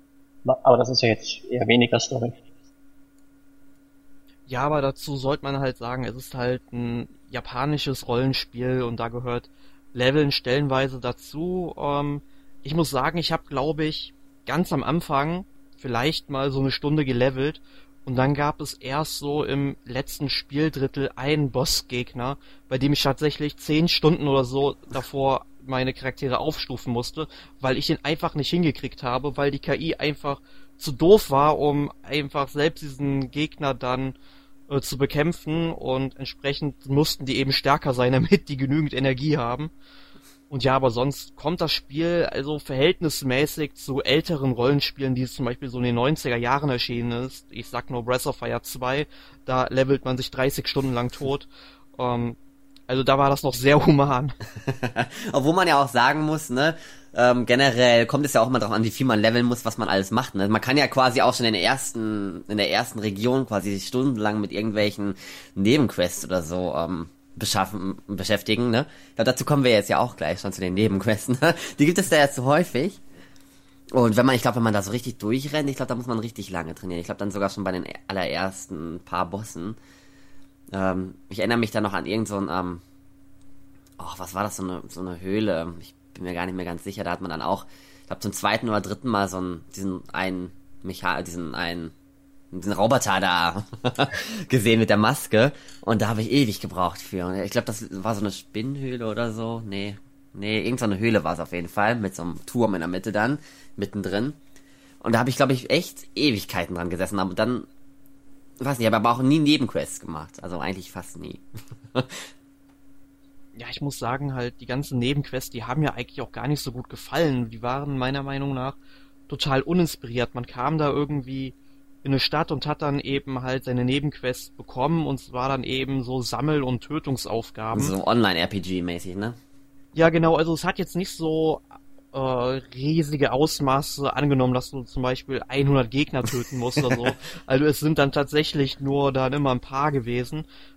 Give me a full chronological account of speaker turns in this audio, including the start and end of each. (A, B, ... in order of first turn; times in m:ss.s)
0:00.4-0:02.4 A
0:04.5-0:34.1 B
0:34.7-0:39.7 B
0:40.5-0:52.4 B
0:52.9-0:54.4 B
0:54.6-1:13.0 C
1:13.9-1:19.8 C
1:20.7-1:22.8 C
1:24.0-1:31.9 C
1:32.5-1:44.4 C
1:45.0-1:47.7 C
1:48.6-1:52.3 C
1:53.5-1:58.8 B
1:59.3-2:07.9 B
2:07.7-2:09.4 C
2:09.9-2:20.4 B